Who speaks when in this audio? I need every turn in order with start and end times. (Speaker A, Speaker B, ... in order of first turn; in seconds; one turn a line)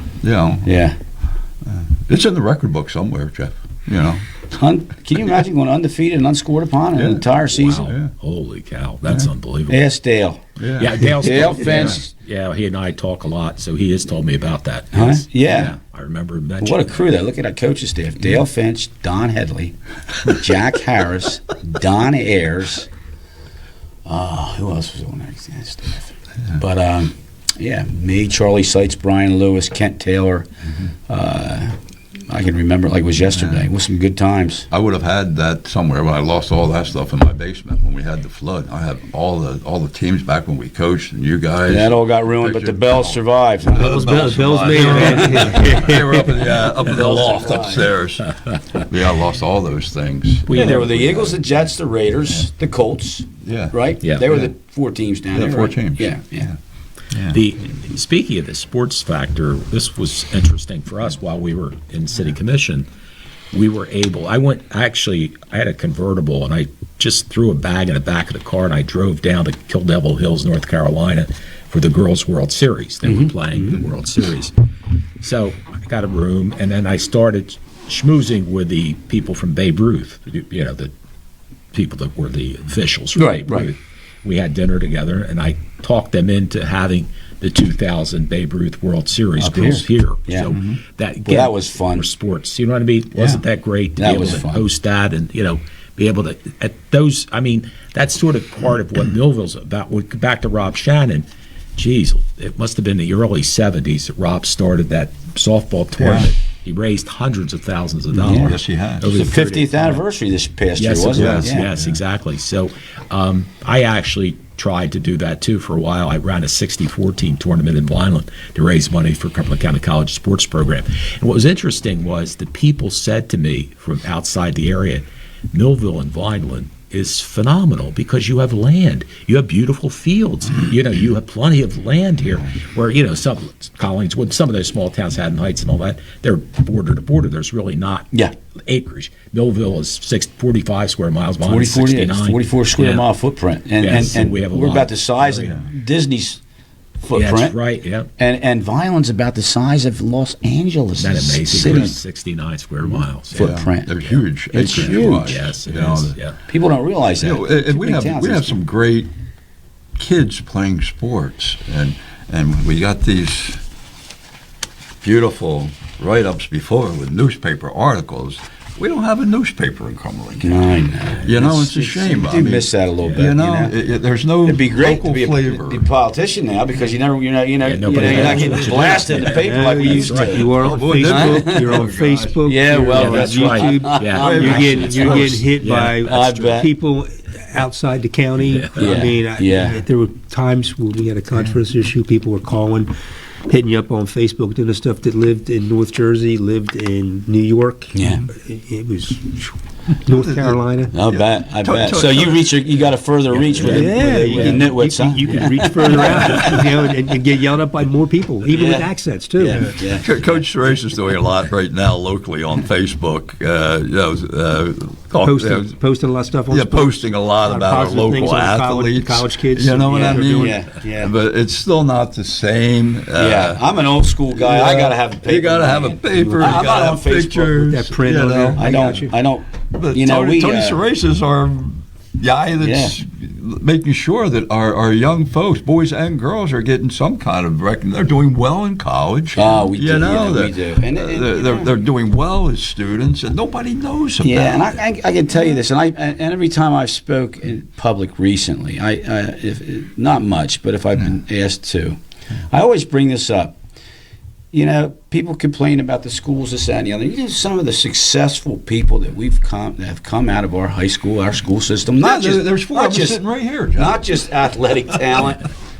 Speaker A: 0.2-0.7
Speaker B: 0.6-1.0
Speaker A: 1.7-4.3
Speaker B: 4.5-7.9
Speaker A: 7.0-7.2
Speaker C: 7.5-9.8
Speaker A: 7.8-8.1
Speaker B: 9.7-10.4
Speaker A: 10.6-11.0
Speaker C: 10.8-17.0
Speaker B: 11.2-12.1
Speaker B: 14.9-15.7
Speaker B: 16.6-22.9
Speaker B: 24.1-30.5
Speaker B: 31.1-31.8
Speaker B: 32.3-34.7
Speaker A: 33.4-33.6
Speaker A: 34.7-43.2
Speaker B: 41.7-45.8
Speaker A: 43.7-50.8
Speaker D: 43.8-46.4
Speaker B: 46.8-47.9
Speaker C: 50.5-51.4
Speaker B: 50.5-56.5
Speaker A: 53.4-53.8
Speaker A: 55.3-56.5
Speaker A: 57.1-57.4
Speaker C: 57.3-62.9
Speaker C: 63.5-74.5
Speaker B: 73.1-73.8
Speaker C: 75.2-80.9
Speaker C: 81.7-110.0
Speaker B: 83.2-83.7
Speaker B: 89.4-90.5
Speaker B: 91.2-92.1
Speaker B: 93.2-93.4
Speaker B: 94.0-94.6
Speaker A: 106.0-106.3
Speaker B: 108.1-108.5
Speaker A: 108.3-109.2
Speaker B: 109.1-111.7
Speaker C: 110.8-143.1
Speaker A: 111.1-111.9
Speaker B: 141.4-146.4
Speaker C: 143.8-145.5
Speaker B: 147.0-147.6
Speaker C: 147.1-148.1
Speaker B: 148.2-151.9
Speaker C: 151.0-156.4
Speaker B: 153.3-153.9
Speaker A: 153.3-156.2
Speaker B: 154.5-155.4
Speaker B: 156.5-158.6
Speaker A: 157.2-159.1
Speaker A: 160.0-163.6
Speaker A: 165.0-170.7
Speaker B: 170.4-173.7
Speaker A: 171.2-175.9
Speaker B: 174.4-180.5
Speaker C: 177.6-180.4
Speaker A: 177.9-179.1
Speaker D: 177.9-192.9
Speaker A: 179.8-182.4
Speaker B: 181.0-181.8
Speaker B: 182.4-185.4
Speaker C: 182.9-186.3
Speaker A: 184.1-185.3
Speaker B: 186.0-186.7
Speaker C: 188.5-189.0
Speaker B: 188.8-189.8
Speaker D: 193.5-200.9
Speaker B: 197.9-198.2
Speaker A: 200.2-200.5
Speaker B: 200.9-206.7
Speaker A: 201.1-202.6
Speaker D: 203.5-209.7
Speaker C: 203.6-204.7
Speaker C: 205.2-205.6
Speaker B: 208.4-210.4
Speaker A: 209.5-215.8
Speaker D: 215.1-220.7
Speaker A: 216.5-223.6
Speaker B: 219.9-221.1
Speaker B: 223.1-227.8
Speaker A: 224.3-229.0
Speaker D: 226.1-226.6
Speaker D: 227.6-229.1
Speaker B: 228.6-230.8
Speaker A: 229.7-244.8
Speaker B: 232.6-233.0
Speaker B: 239.3-241.7
Speaker B: 244.2-252.0
Speaker B: 252.5-253.6
Speaker B: 254.5-263.2
Speaker A: 262.0-264.2
Speaker B: 263.7-265.5